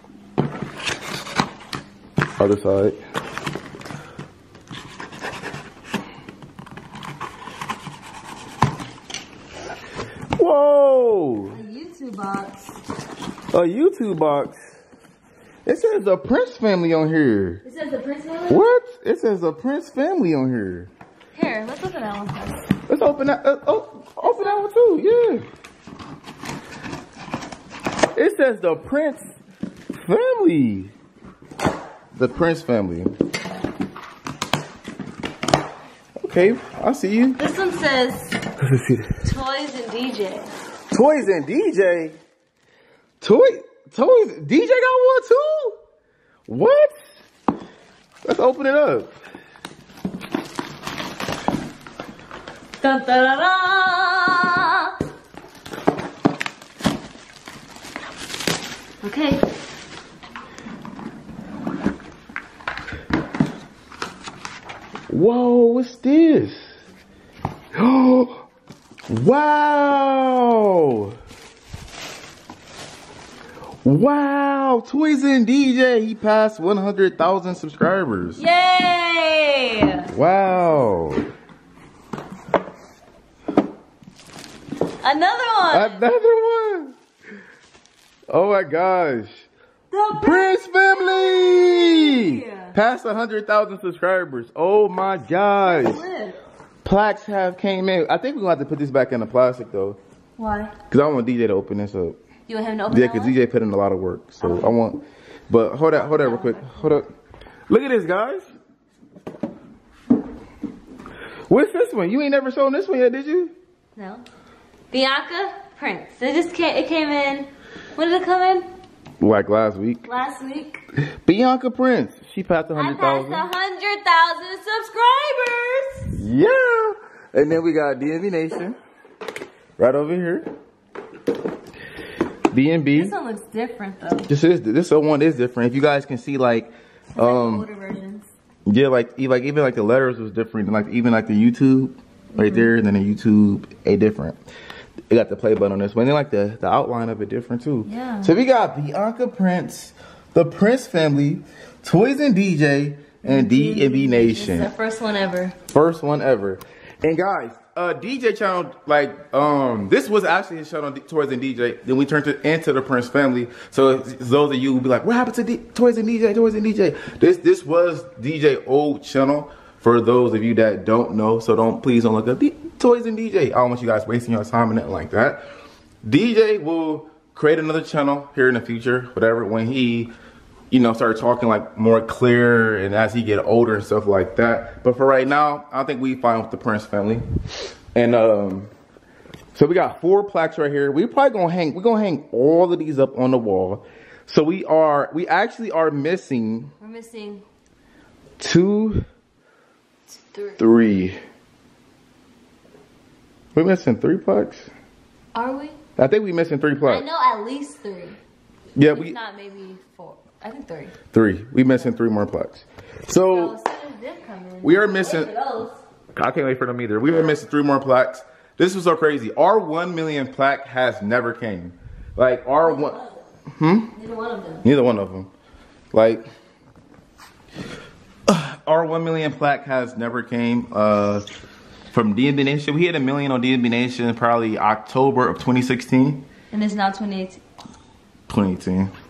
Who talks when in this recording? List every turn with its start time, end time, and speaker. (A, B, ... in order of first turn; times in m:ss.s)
0:02.4-0:03.0 A
0:10.4-0:11.6 A
0:11.5-0:12.8 B
0:13.5-0:14.5 A
0:15.6-0:17.6 A
0:17.6-0:18.7 B
0:18.5-0:20.9 A
0:21.3-0:22.7 B
0:22.9-0:25.4 A
0:24.2-0:24.6 B
0:28.1-0:29.2 A
0:30.0-0:30.9 A
0:32.1-0:33.1 A
0:36.2-0:37.4 A
0:37.4-0:38.4 B
0:38.6-0:39.1 A
0:39.2-0:40.5 B
0:40.9-0:42.2 A
0:43.2-0:45.8 A
0:46.5-0:47.1 A
0:48.2-0:49.1 A
0:52.8-0:54.9 B
0:59.0-0:59.4 B
1:05.1-1:06.8 A
1:07.7-1:08.5 A
1:09.1-1:11.2 A
1:13.8-1:18.4 A
1:18.4-1:20.7 B
1:20.1-1:21.2 A
1:25.0-1:26.0 B
1:25.7-1:26.9 A
1:28.3-1:29.4 A
1:29.9-1:32.7 B
1:30.1-1:36.0 A
1:35.6-1:36.4 B
1:36.8-1:40.0 A
1:40.4-1:40.7 B
1:40.9-1:42.2 A
1:42.5-1:43.4 B
1:42.9-1:47.1 A
1:44.4-1:44.7 B
1:46.0-1:47.0 B
1:47.7-1:48.4 A
1:51.5-1:53.5 A
1:54.0-1:54.2 B
1:54.9-1:58.7 B
1:59.2-2:00.0 A
2:00.0-2:00.8 B
2:01.2-2:03.5 A
2:02.7-2:06.1 B
2:06.1-2:08.8 A
2:09.8-2:10.5 A
2:12.5-2:13.1 A
2:12.9-2:14.3 B
2:14.3-2:17.7 A
2:17.1-2:18.3 B
2:18.6-2:24.4 A
2:22.4-2:22.7 B
2:25.1-2:34.7 A
2:27.8-2:28.3 B
2:33.2-2:35.5 B
2:35.7-2:55.4 A
2:56.0-3:00.1 A
3:00.7-3:07.2 A
3:07.9-3:08.7 A
3:09.5-3:16.7 A
3:16.8-3:17.4 B
3:18.4-3:19.0 A
3:20.1-3:20.8 B
3:20.6-3:21.2 A
3:23.5-3:24.7 A
3:25.3-3:25.8 B
3:26.0-3:27.0 A
3:26.8-3:28.2 B
3:28.8-3:29.2 A
3:28.8-3:31.0 B
3:31.1-3:33.6 A
3:33.1-3:35.8 B
3:34.6-3:35.3 A
3:36.2-3:43.0 A
3:42.6-3:43.2 B
3:43.6-3:43.9 A
3:43.9-3:44.6 B
3:44.6-3:45.3 A
3:45.9-3:46.2 A
3:48.3-3:51.3 A
3:51.9-3:56.2 A
3:56.5-3:57.4 B
3:58.3-3:58.9 A